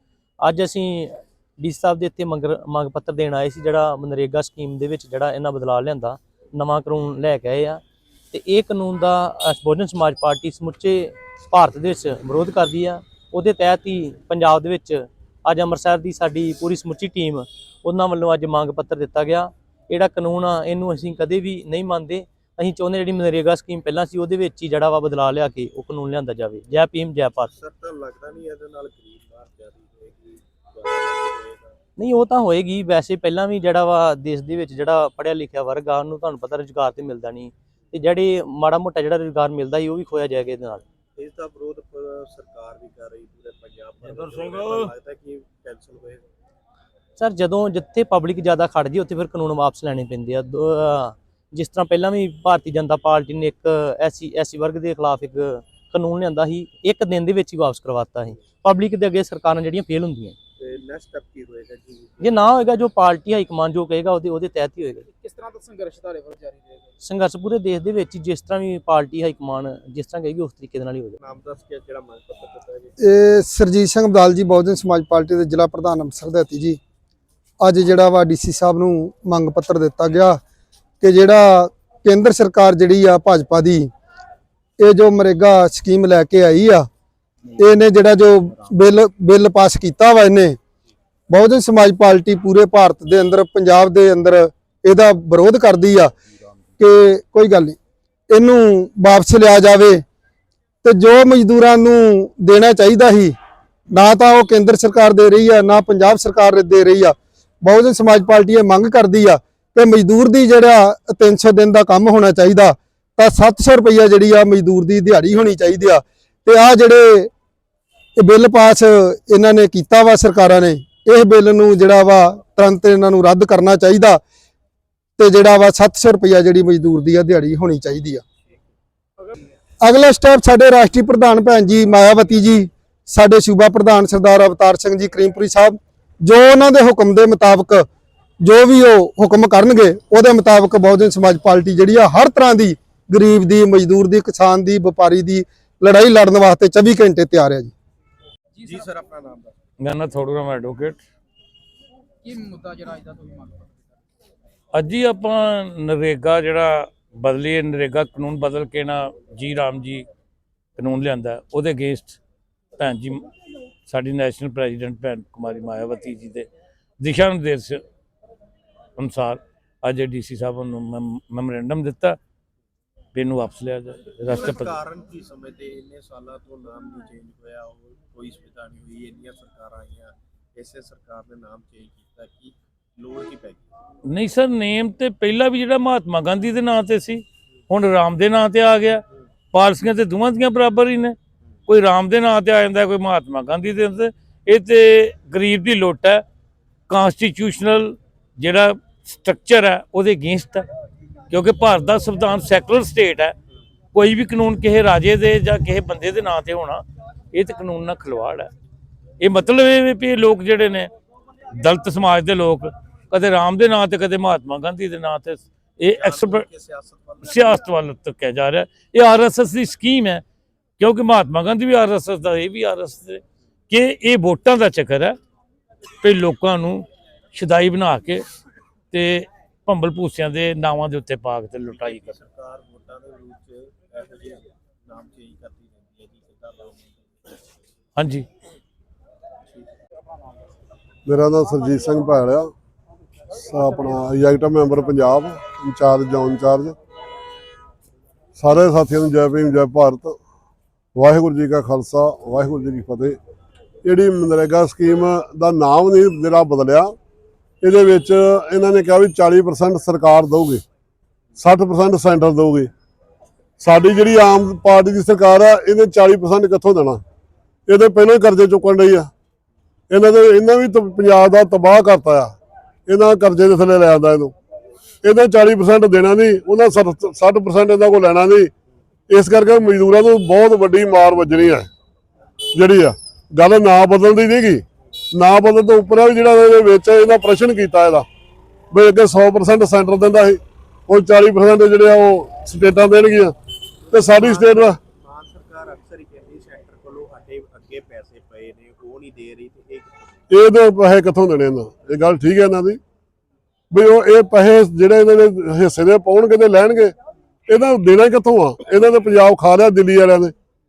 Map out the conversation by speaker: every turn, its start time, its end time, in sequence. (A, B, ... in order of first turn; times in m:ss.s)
0:00.4-0:27.5 A
0:27.5-0:31.8 B
0:32.0-0:40.8 A
0:41.2-0:46.3 B
0:47.2-1:00.4 A
1:00.6-1:02.4 B
1:02.2-1:05.1 A
1:05.1-1:06.9 C
1:07.0-1:11.2 A
1:11.2-1:13.0 B
1:13.0-1:16.8 D
1:17.6-1:20.4 D
1:21.0-1:23.9 D
1:24.8-1:26.9 D
1:27.6-1:30.6 D
1:31.3-1:36.1 D
1:36.8-1:37.8 D
1:38.3-1:40.0 D
1:40.8-1:43.4 D
1:43.9-1:57.3 D
1:58.2-2:04.2 D
2:05.2-2:08.2 D
2:09.8-2:17.9 D
2:18.4-2:27.7 D
2:28.6-2:28.9 C
2:28.6-2:29.6 B
2:29.8-2:31.0 E
2:32.2-2:33.9 C
2:34.7-2:40.1 E
2:40.8-2:42.2 E
2:42.8-2:43.3 E
2:43.9-2:46.5 E
2:47.0-2:47.8 E
2:49.0-2:52.2 E
2:53.1-2:54.8 E
2:54.3-3:03.7 B
3:04.1-3:11.2 E
3:11.7-3:16.2 E
3:16.9-3:20.6 E
3:21.3-3:23.4 E
3:23.9-3:28.5 E
3:29.2-3:30.9 E
3:31.5-3:36.5 E
3:35.9-3:37.7 B
3:37.2-3:40.2 E
3:40.8-3:45.2 E
3:46.0-3:48.2 E
3:48.9-3:52.2 E
3:51.6-3:57.5 B
3:58.0-3:58.3 E
4:01.1-4:02.5 F
4:03.4-4:06.8 F
4:08.4-4:10.2 F
4:11.0-4:13.2 F
4:13.8-4:17.0 F
4:17.6-4:20.6 F
4:21.4-4:22.7 F
4:23.6-4:27.0 F
4:27.7-4:29.1 F
4:29.9-4:32.4 F
4:32.9-4:34.3 F
4:35.0-4:38.5 F
4:39.1-4:41.7 F
4:42.6-4:48.1 F
4:48.7-4:53.4 F
4:53.9-4:54.8 F
4:53.9-5:00.2 B
5:00.3-5:02.8 F
5:03.7-5:06.9 F
5:07.5-5:10.3 F